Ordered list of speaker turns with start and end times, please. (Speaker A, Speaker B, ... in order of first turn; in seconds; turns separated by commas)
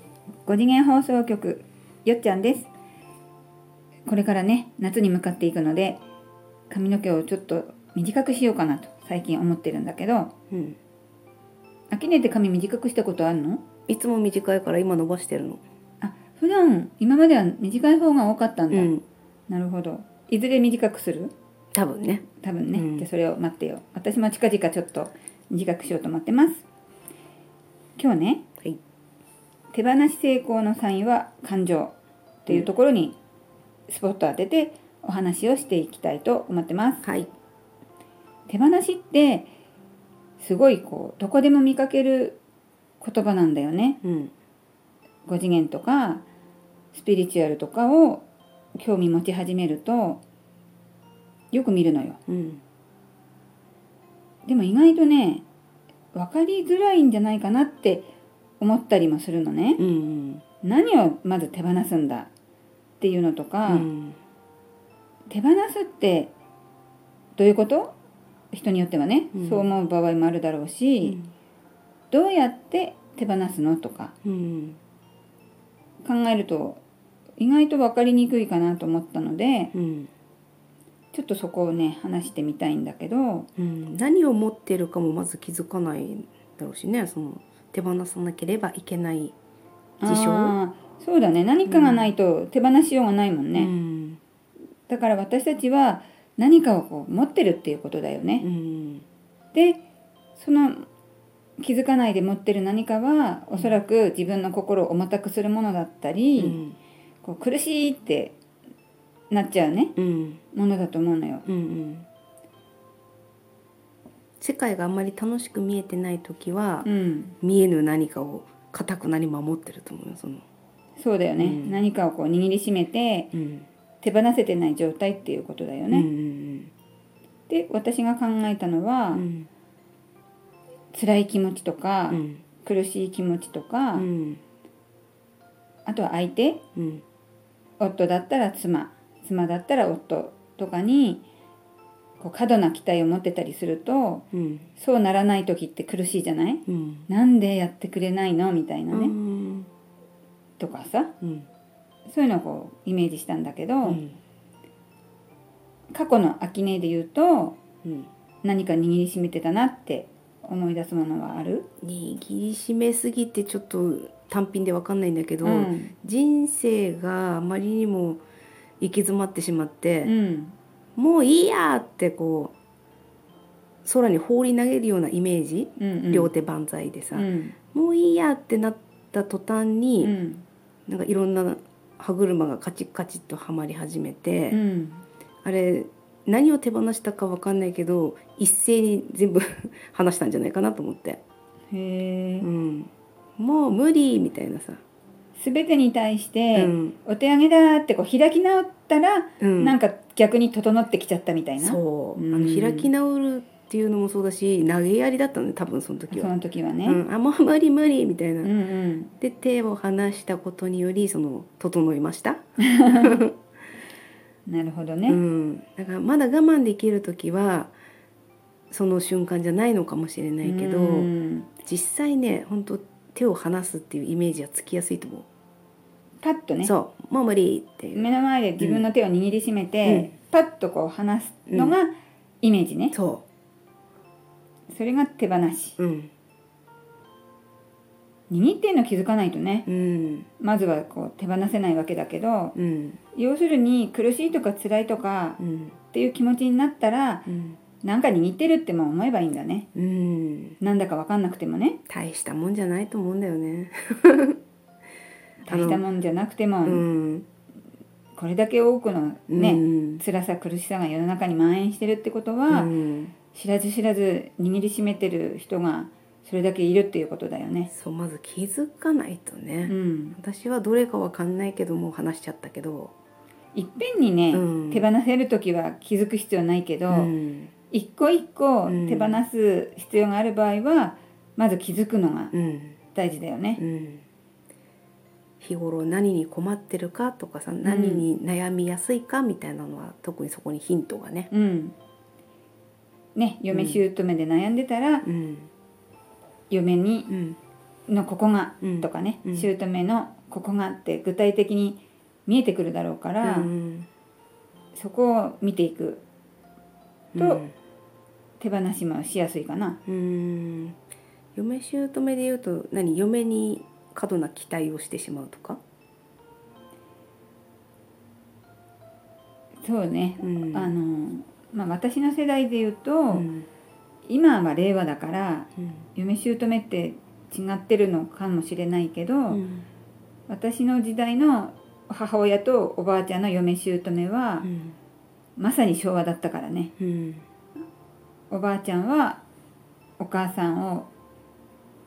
Speaker A: 0.5-2.7, Speaker A: 4.1-6.0, Speaker A: 6.7-10.3, Speaker B: 10.5-10.8, Speaker A: 11.9-13.6, Speaker B: 13.9-15.6, Speaker A: 16.0-18.9, Speaker B: 18.7-19.0, Speaker A: 19.5-21.3, Speaker B: 21.7-23.1, Speaker A: 22.4-26.6, Speaker A: 28.0-28.4, Speaker A: 29.7-31.9, Speaker A: 32.4-33.2, Speaker A: 33.9-37.0, Speaker B: 37.0-37.3, Speaker A: 38.5-39.5, Speaker A: 40.4-42.4, Speaker A: 43.0-44.0, Speaker B: 44.0-44.3, Speaker A: 45.3-46.2, Speaker A: 46.9-50.2, Speaker A: 51.5-52.2, Speaker B: 52.3-52.6, Speaker A: 54.5-55.4, Speaker A: 56.1-58.1, Speaker A: 58.6-59.8, Speaker B: 59.8-60.4, Speaker A: 60.6-62.3, Speaker A: 63.0-63.9, Speaker B: 63.7-64.2, Speaker A: 65.3-66.3, Speaker A: 67.3-68.0, Speaker A: 68.5-71.2, Speaker B: 69.3-69.7, Speaker B: 71.0-71.3, Speaker A: 72.1-74.1, Speaker B: 74.2-74.8, Speaker A: 76.0-76.8, Speaker A: 77.4-79.7, Speaker B: 79.7-80.1, Speaker A: 81.1-83.5, Speaker B: 83.6-89.3, Speaker A: 90.0-93.7, Speaker B: 90.0-90.6, Speaker B: 91.7-92.1, Speaker B: 93.5-94.2, Speaker A: 94.9-98.4, Speaker B: 98.4-99.0, Speaker A: 99.5-99.8, Speaker A: 100.4-100.9, Speaker A: 101.6-106.6, Speaker B: 106.4-106.8, Speaker A: 107.2-108.3, Speaker A: 109.3-109.9, Speaker B: 110.0-110.4, Speaker A: 110.5-111.4, Speaker B: 111.5-112.1, Speaker B: 114.4-116.9, Speaker A: 116.8-117.3, Speaker B: 117.4-120.4, Speaker A: 121.0-123.3, Speaker B: 121.4-121.8, Speaker B: 123.3-123.7, Speaker A: 124.0-126.1, Speaker B: 125.9-126.7, Speaker A: 127.5-129.2, Speaker B: 129.1-129.5, Speaker A: 130.9-134.1, Speaker B: 132.1-132.4, Speaker B: 133.9-134.4, Speaker A: 135.8-136.6, Speaker B: 136.8-137.0, Speaker A: 137.8-141.2, Speaker A: 142.2-144.2, Speaker B: 144.3-144.7, Speaker A: 144.8-149.1, Speaker B: 146.7-147.1, Speaker B: 148.9-149.7, Speaker A: 150.6-151.1, Speaker B: 151.2-151.5, Speaker A: 152.1-154.0, Speaker B: 153.8-154.2, Speaker A: 155.9-157.6, Speaker B: 157.8-158.1, Speaker A: 158.4-161.7, Speaker B: 161.8-168.2, Speaker A: 165.4-165.9, Speaker B: 168.8-170.1, Speaker A: 170.0-170.5, Speaker B: 170.9-172.5, Speaker B: 173.8-180.2, Speaker A: 175.8-176.3, Speaker A: 177.1-177.5, Speaker A: 180.0-180.4, Speaker B: 180.9-184.6, Speaker A: 184.5-185.0, Speaker B: 185.4-191.2, Speaker A: 191.7-192.5, Speaker B: 192.4-194.8, Speaker A: 195.3-202.9, Speaker B: 196.5-196.9, Speaker B: 199.4-199.8, Speaker B: 201.6-208.5, Speaker A: 206.1-207.0, Speaker A: 208.4-209.1, Speaker B: 209.2-213.3, Speaker A: 212.6-213.2, Speaker A: 214.5-215.2, Speaker B: 215.1-217.7, Speaker B: 218.7-221.1, Speaker A: 220.4-221.5, Speaker B: 221.6-225.3, Speaker A: 226.2-226.7, Speaker B: 226.6-228.1, Speaker A: 227.9-232.9, Speaker B: 228.6-228.8, Speaker B: 229.8-230.1, Speaker B: 231.5-231.7, Speaker B: 232.9-233.2, Speaker A: 234.7-235.8, Speaker B: 235.8-236.1, Speaker A: 238.3-239.7, Speaker B: 239.7-240.3, Speaker A: 240.4-242.5, Speaker B: 242.5-243.0, Speaker A: 243.1-245.4, Speaker B: 245.4-245.7, Speaker A: 245.9-247.3, Speaker B: 247.3-247.6, Speaker A: 247.8-249.7, Speaker B: 249.7-250.6, Speaker A: 250.6-251.8, Speaker B: 251.9-254.4, Speaker A: 255.4-256.9, Speaker B: 255.5-255.8, Speaker B: 256.6-257.2, Speaker A: 258.1-262.7, Speaker B: 259.3-260.0, Speaker B: 262.5-263.1, Speaker A: 263.3-267.7, Speaker B: 267.7-272.9, Speaker A: 269.7-270.2, Speaker A: 273.5-277.1, Speaker B: 274.3-274.9, Speaker B: 276.9-277.5, Speaker A: 277.7-282.3, Speaker B: 278.6-279.2, Speaker B: 282.3-282.8, Speaker A: 282.9-283.6, Speaker B: 283.6-284.0, Speaker B: 285.4-291.3, Speaker A: 287.6-288.0, Speaker A: 291.3-291.7, Speaker A: 293.1-295.1, Speaker B: 293.5-293.8, Speaker B: 295.0-295.5, Speaker A: 296.5-297.1, Speaker B: 297.1-297.4, Speaker A: 297.9-303.5, Speaker B: 298.6-299.5, Speaker B: 303.2-303.9, Speaker A: 304.7-306.0, Speaker B: 307.1-307.5, Speaker A: 307.1-307.4, Speaker A: 308.4-309.8, Speaker B: 309.9-310.8, Speaker B: 311.3-315.6, Speaker A: 319.6-323.3, Speaker B: 320.2-320.7, Speaker B: 323.1-323.4, Speaker A: 324.1-329.4, Speaker B: 329.3-329.6, Speaker A: 330.3-334.5, Speaker B: 334.4-334.8, Speaker A: 335.4-336.7, Speaker B: 336.8-337.2, Speaker A: 338.3-339.2, Speaker A: 340.0-340.9